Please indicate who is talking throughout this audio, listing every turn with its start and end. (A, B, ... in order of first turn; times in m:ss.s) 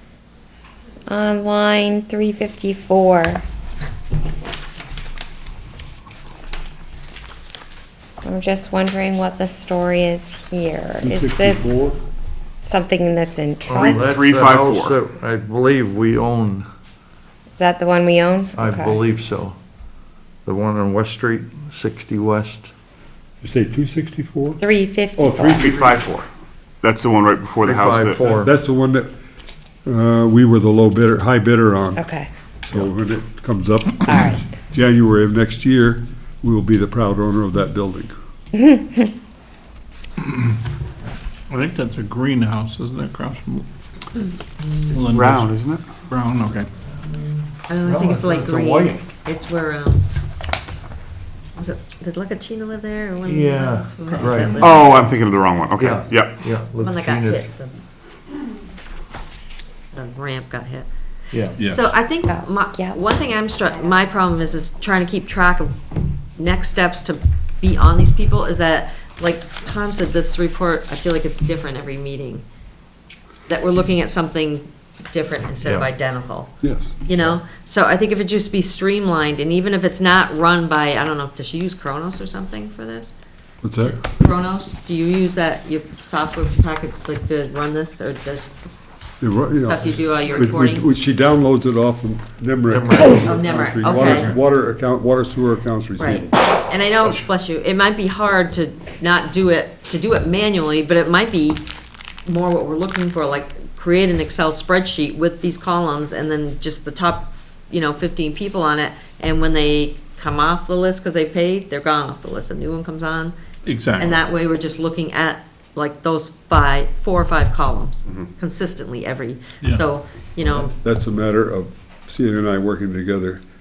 0:01.1-0:03.4 A
0:08.2-0:11.9 A
0:11.0-0:12.0 B
0:12.6-0:14.1 A
0:13.6-0:16.7 C
0:13.7-0:15.0 D
0:17.5-0:19.1 A
0:18.5-0:19.6 C
0:20.4-0:22.7 C
0:23.4-0:24.6 B
0:24.6-0:25.9 A
0:25.2-0:26.0 B
0:25.5-0:26.2 D
0:26.8-0:28.4 D
0:27.6-0:28.5 C
0:28.3-0:29.1 B
0:29.8-0:32.1 B
0:32.0-0:32.3 A
0:32.6-0:38.1 B
0:34.1-0:34.4 A
0:41.5-0:43.6 E
0:44.9-0:45.8 D
0:44.9-0:45.6 E
0:46.1-0:46.7 E
0:47.1-0:49.0 C
0:47.7-0:50.0 F
0:51.6-0:55.1 F
0:53.2-0:54.6 C
0:54.2-0:54.8 E
0:54.5-0:56.5 D
0:55.7-0:57.5 C
0:56.8-0:57.8 F
0:59.9-1:00.9 F
1:01.3-1:01.6 C
1:01.6-1:05.7 F
1:01.6-1:01.8 E
1:02.3-1:03.0 A
1:06.4-1:12.4 F
1:13.5-1:16.5 F
1:15.6-1:15.9 C
1:16.6-1:16.9 B
1:17.0-1:23.1 F
1:23.6-1:24.0 B
1:23.8-1:28.5 F
1:29.2-1:36.4 B
1:29.5-1:30.8 F
1:32.7-1:34.4 C
1:33.1-1:34.3 F
1:36.0-1:41.6 F
1:42.2-1:53.3 F
1:53.6-1:54.2 E
1:54.0-2:00.7 F
2:00.5-2:03.4 B